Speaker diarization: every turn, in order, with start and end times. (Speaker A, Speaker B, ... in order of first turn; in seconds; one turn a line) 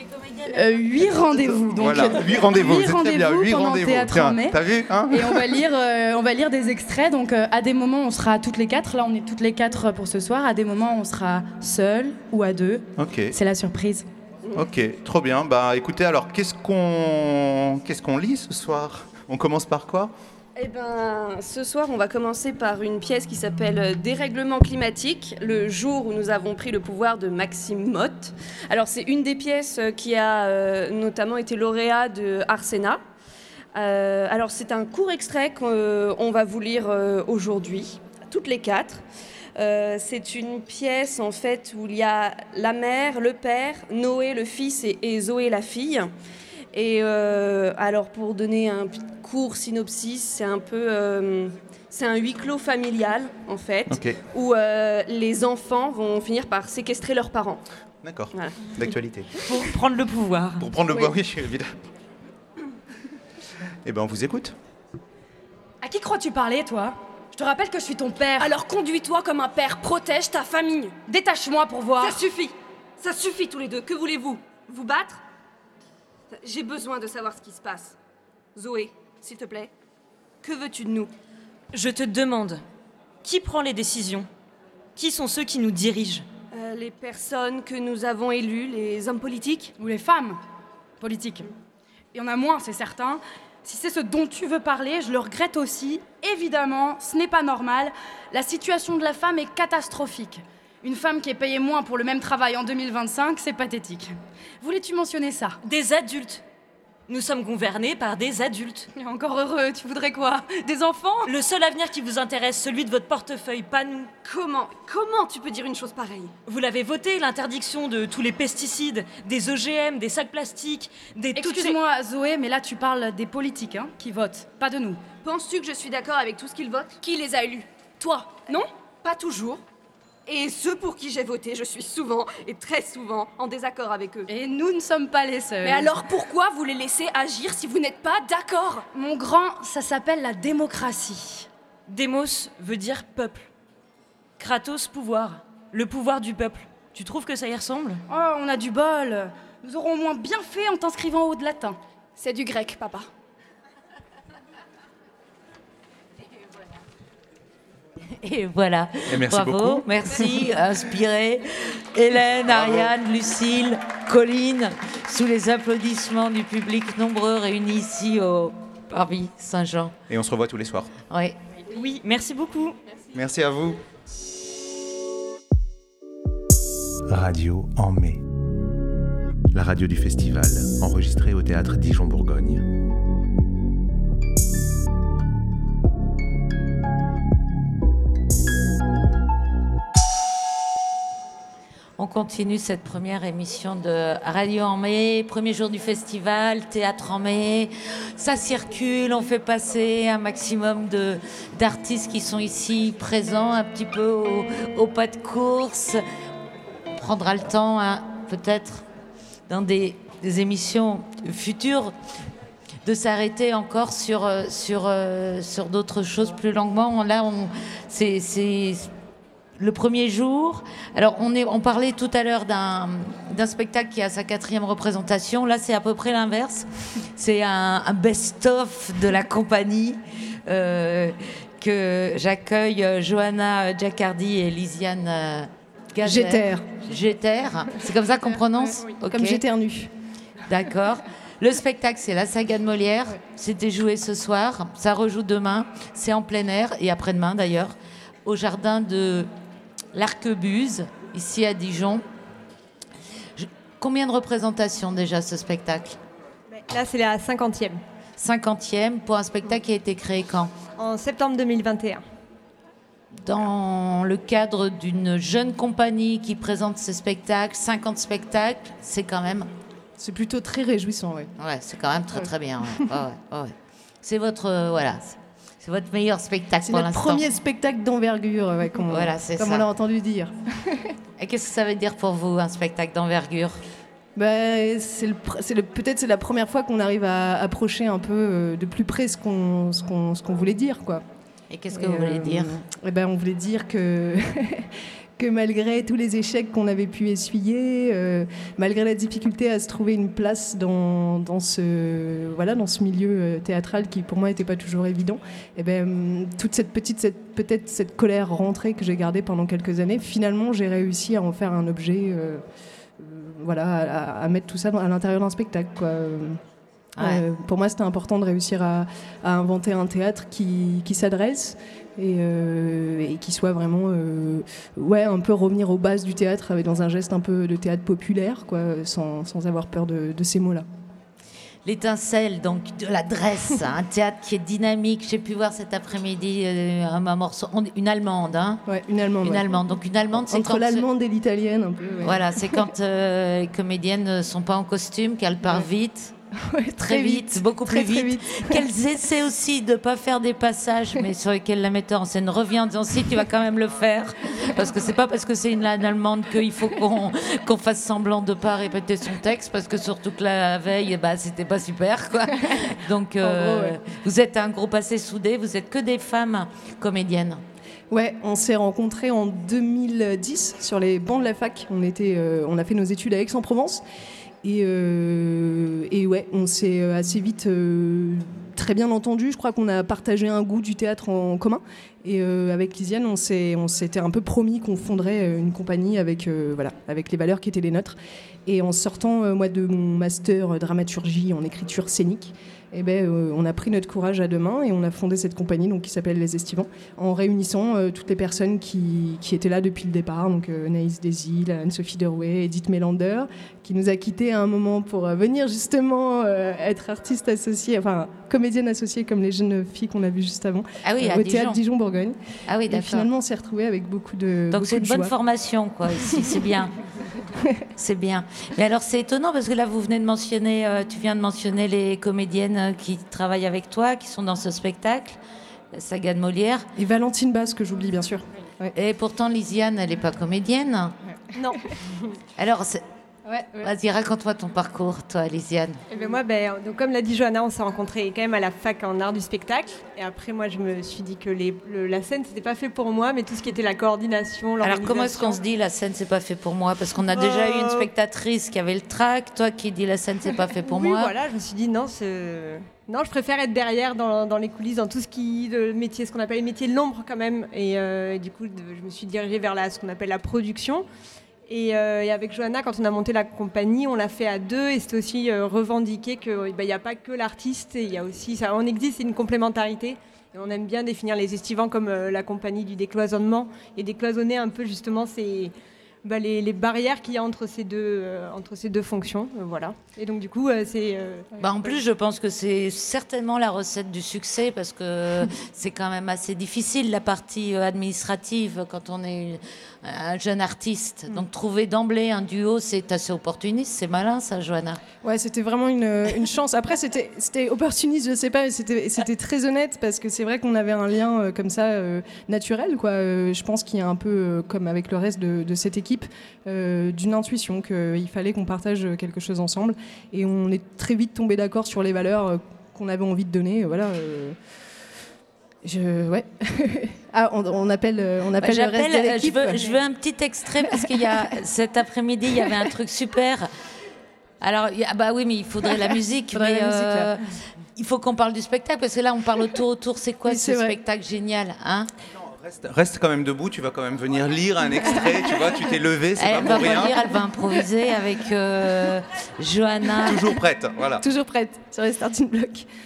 Speaker A: 0.4-14.1
Speaker B: 1.8-5.6
Speaker B: 13.0-13.3
Speaker B: 14.5-20.1
Speaker C: 20.6-33.0
Speaker C: 33.8-39.0
Speaker C: 39.6-46.1
Speaker C: 46.7-57.6
Speaker B: 53.9-54.2
Speaker B: 58.0-59.3
Speaker D: 59.5-60.7
Speaker B: 60.6-61.7
Speaker B: 63.9-64.5
Speaker A: 65.8-68.5
Speaker E: 68.4-70.9
Speaker A: 71.1-72.2
Speaker C: 72.0-75.2
Speaker C: 76.3-78.0
Speaker C: 78.5-79.7
Speaker C: 80.4-81.1
Speaker D: 81.7-82.6
Speaker D: 83.2-84.3
Speaker D: 85.0-86.2
Speaker C: 86.5-89.7
Speaker A: 89.8-90.4
Speaker A: 91.0-91.5
Speaker A: 92.1-105.6
Speaker D: 105.6-106.4
Speaker D: 107.1-108.9
Speaker A: 109.0-111.3
Speaker D: 111.3-114.1
Speaker C: 114.2-116.3
Speaker D: 116.5-121.8
Speaker A: 121.3-125.0
Speaker C: 125.2-127.0
Speaker E: 127.3-128.6
Speaker C: 129.0-129.6
Speaker C: 130.3-134.3
Speaker A: 134.3-135.9
Speaker E: 135.6-138.8
Speaker A: 138.9-141.5
Speaker D: 141.9-143.5
Speaker D: 144.4-148.0
Speaker A: 148.1-151.8
Speaker E: 152.2-153.1
Speaker F: 158.2-169.9
Speaker B: 159.1-159.9
Speaker B: 162.5-162.9
Speaker B: 170.1-170.9
Speaker F: 171.1-171.4
Speaker D: 171.7-172.8
Speaker B: 173.1-173.8
Speaker G: 177.1-178.2
Speaker G: 179.5-182.6
Speaker F: 192.0-206.0
Speaker F: 206.9-208.8
Speaker F: 209.5-211.9
Speaker F: 212.8-218.9
Speaker F: 219.6-239.4
Speaker H: 236.0-236.7
Speaker H: 239.1-239.9
Speaker F: 240.5-249.3
Speaker F: 249.9-252.0
Speaker F: 253.4-256.0
Speaker I: 256.5-257.8
Speaker F: 258.2-260.5
Speaker I: 260.8-262.0
Speaker F: 263.2-269.5
Speaker H: 270.0-271.3
Speaker F: 271.4-277.3
Speaker H: 272.1-272.9
Speaker H: 276.6-280.9
Speaker F: 278.9-279.6
Speaker F: 281.2-283.6
Speaker H: 284.2-291.0
Speaker F: 291.5-292.6
Speaker H: 291.7-312.4
Speaker H: 313.0-316.4
Speaker F: 317.0-317.2
Speaker H: 317.0-330.7
Speaker F: 331.6-338.6
Speaker H: 338.7-339.6
Speaker F: 339.2-340.9
Speaker H: 340.2-342.7
Speaker F: 342.0-346.1
Speaker H: 346.5-348.6
Speaker F: 346.8-367.4
Speaker H: 363.2-363.8
Speaker H: 367.9-373.8
Speaker H: 374.4-415.1
Speaker F: 410.8-411.6
Speaker F: 412.5-413.1
Speaker F: 414.5-416.7
Speaker F: 417.8-425.2
Speaker F: 425.7-426.7
Speaker H: 426.8-428.7
Speaker F: 428.7-431.0
Speaker I: 431.3-432.1
Speaker F: 432.4-432.8
Speaker F: 433.6-435.8
Speaker I: 435.9-445.4
Speaker F: 444.6-451.1
Speaker I: 447.2-447.9
Speaker I: 450.6-460.9
Speaker I: 461.5-475.5
Speaker I: 476.0-481.3
Speaker F: 481.4-494.8
Speaker H: 495.0-514.4
Speaker H: 515.6-519.8
Speaker F: 518.4-523.5
Speaker H: 520.7-521.3
Speaker F: 524.4-527.2
Speaker H: 526.3-527.1
Speaker F: 527.8-531.9
Speaker H: 530.2-530.8
Speaker B: 532.4-537.0
Speaker F: 536.2-540.2
Speaker B: 540.1-541.0
Speaker H: 541.0-542.7